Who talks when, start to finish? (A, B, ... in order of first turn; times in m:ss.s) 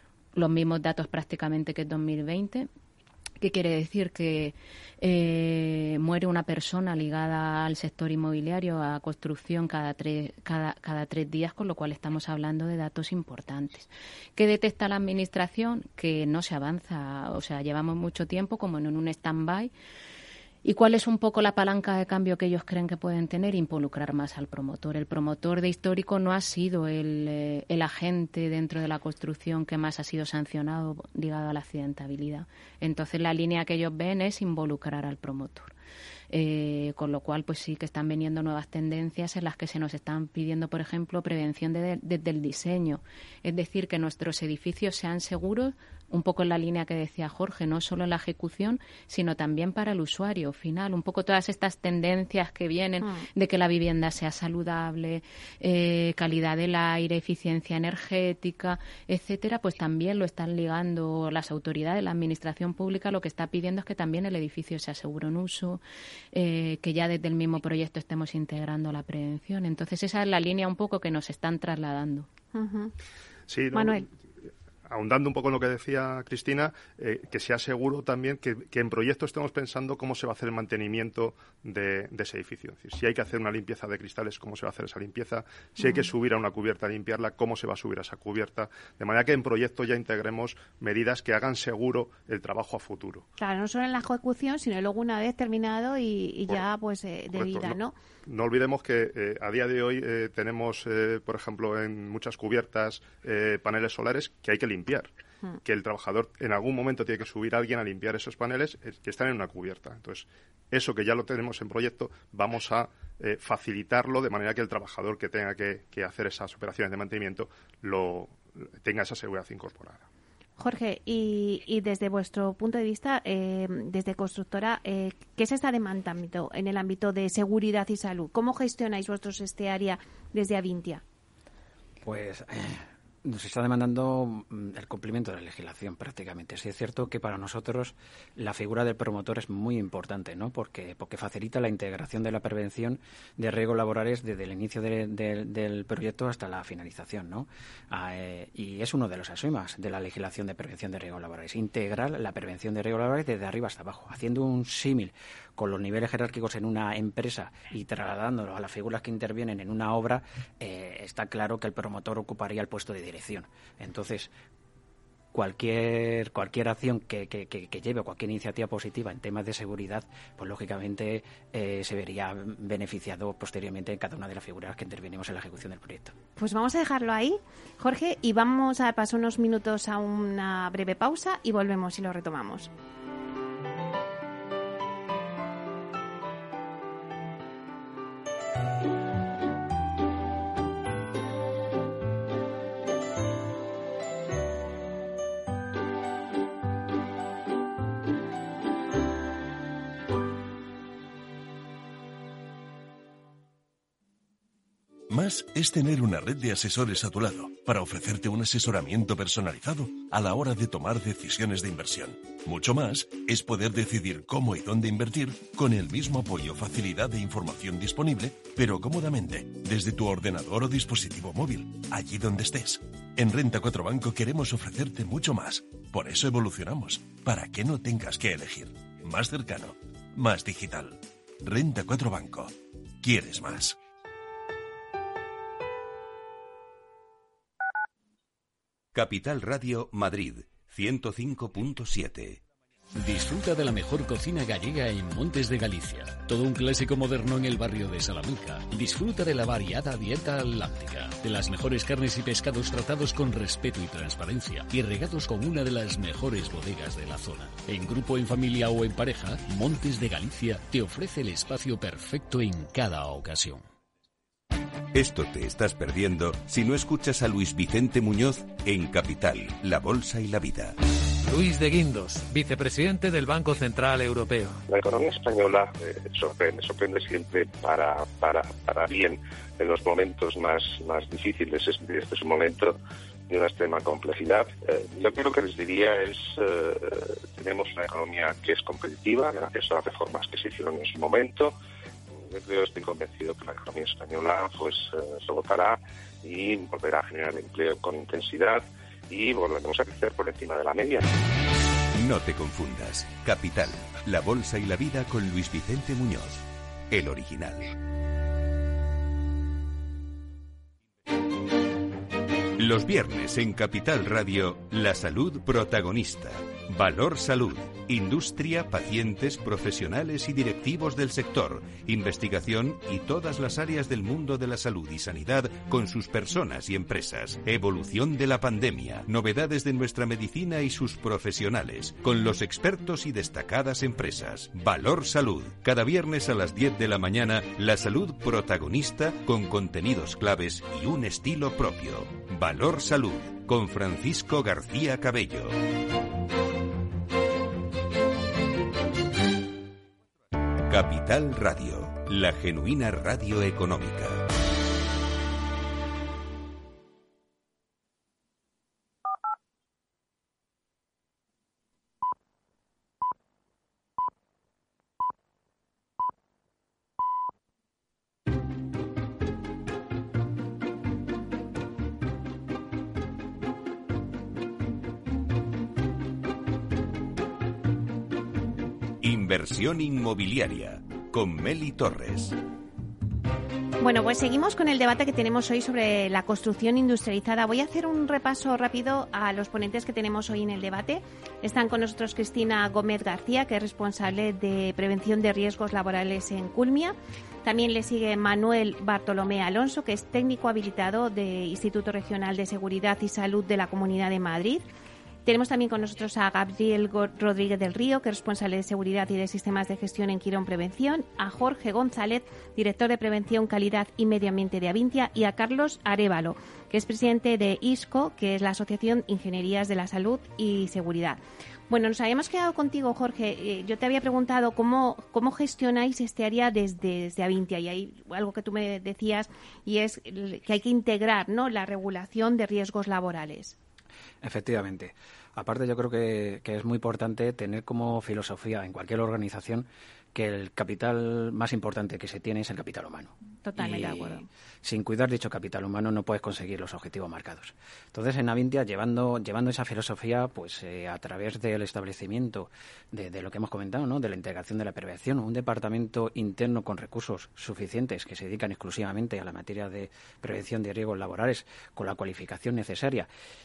0:00.4-0:02.7 A
0:03.4-0:19.7 A
0:20.6-0:35.7 A
0:36.3-1:05.8 A
1:06.3-1:12.3 A
1:12.6-1:12.9 B
1:13.5-1:14.1 C
1:13.7-1:14.0 B
1:14.9-1:33.3 C
1:25.8-1:26.1 B
1:33.4-1:38.0 B
1:37.3-1:45.1 C
1:45.6-2:00.0 C
2:00.6-2:11.0 B
2:12.0-2:44.3 D
2:45.3-2:56.2 D
2:56.4-3:02.7 B
3:25.1-3:53.8 E
3:58.9-4:02.4 F
4:03.0-4:23.6 G
4:24.9-4:30.8 F
4:31.2-4:34.6 H
4:34.7-4:42.8 I
4:43.3-4:51.5 I
4:52.2-5:01.1 I
5:02.0-5:07.8 F
5:12.6-5:45.6 F
5:50.7-5:54.3 F
6:19.0-6:22.4 F
6:23.8-6:44.7 B
6:45.2-7:13.6 B
7:14.2-7:43.1 D
7:23.4-7:24.3 B